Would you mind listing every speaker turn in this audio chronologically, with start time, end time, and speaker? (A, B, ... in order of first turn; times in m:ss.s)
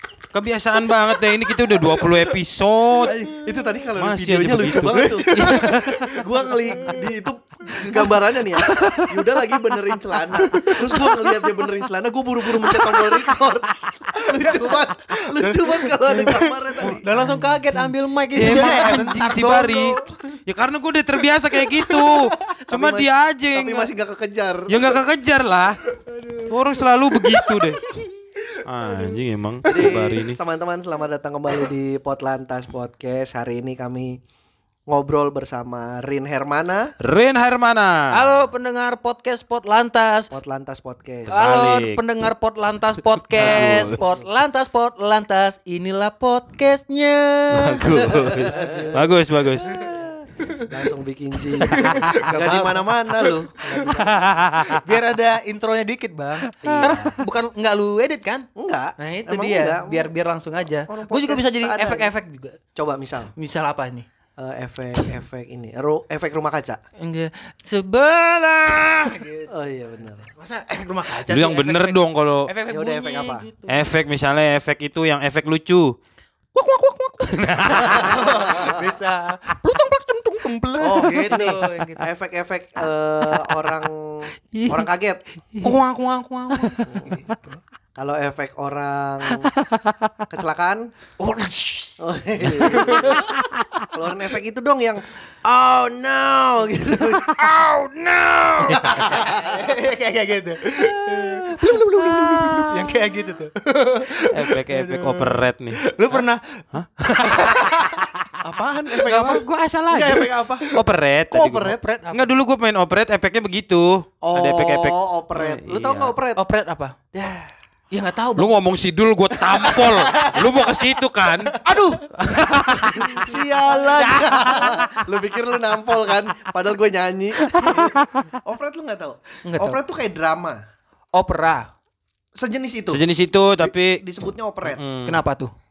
0:00.3-0:03.2 A
0:03.0-0:17.2 B
0:04.0-0:06.2 A
0:04.9-0:07.0 C
0:07.7-0:08.2 C
0:08.8-0:09.0 C
0:10.4-0:11.3 C
0:12.5-0:13.3 C
0:14.1-0:20.1 C
0:18.3-0:23.9 A
0:21.6-0:22.4 C
0:22.7-0:25.0 B
0:24.7-0:25.8 A
0:26.0-0:26.5 C
0:26.4-0:27.9 A
0:27.2-0:29.1 C
0:28.6-0:30.4 A
0:29.6-0:34.2 B
0:29.7-0:29.9 C
0:34.9-0:36.9 B
0:37.0-0:38.2 A
0:38.1-0:40.3 C
0:40.3-0:41.4 B
0:41.3-0:42.0 A
0:41.3-0:49.1 C
0:43.3-0:44.1 A
0:47.5-0:49.7 A
0:48.2-0:49.2 B
0:49.6-0:50.7 C
0:49.7-0:54.6 B
0:51.6-0:53.9 C
0:51.8-0:52.2 A
0:53.8-0:55.0 A
0:54.6-0:58.5 C
0:56.5-0:57.0 A
0:56.6-0:57.2 B
0:58.6-1:00.1 B
0:59.0-1:02.6 C
1:00.8-1:02.1 B
1:02.7-1:03.3 B
1:03.4-1:04.0 C
1:04.4-1:06.8 B
1:07.0-1:09.5 C
1:09.5-1:10.3 B
1:10.4-1:13.8 C
1:11.3-1:12.5 A
1:12.7-1:13.4 B
1:13.7-1:16.0 A
1:16.5-1:22.1 C
1:17.2-1:18.7 A
1:17.7-1:18.9 B
1:20.8-1:25.2 B
1:24.5-1:24.8 A
1:25.6-1:27.6 C
1:26.8-1:27.2 B
1:28.0-1:29.5 B
1:29.4-1:30.1 A
1:30.3-1:30.9 B
1:31.2-1:32.0 C
1:32.0-1:33.2 B
1:32.6-1:33.3 C
1:32.6-1:33.8 A
1:33.9-1:37.4 B
1:37.0-1:48.1 C
1:38.3-1:39.0 A
1:38.7-1:39.8 B
1:40.8-1:41.7 B
1:42.2-1:42.9 A
1:44.2-1:46.2 A
1:46.7-1:48.2 A
1:48.4-1:50.7 B
1:49.0-1:56.1 A
1:51.3-1:51.8 B
1:51.8-1:52.3 C
1:54.2-1:56.4 B
1:56.4-1:57.0 C
1:57.1-1:57.5 B
1:57.9-1:58.5 C
1:58.4-2:01.6 A
1:59.5-2:00.6 B
2:01.5-2:01.8 B
2:01.6-2:02.1 C
2:02.1-2:03.4 A
2:02.8-2:03.4 C
2:03.0-2:10.6 B
2:03.9-2:04.9 A
2:07.4-2:08.3 A
2:09.4-2:09.8 C
2:11.1-2:11.7 C
2:12.3-2:13.0 B
2:12.9-2:14.0 A
2:13.6-2:14.8 B
2:14.6-2:15.2 A
2:15.0-2:15.5 C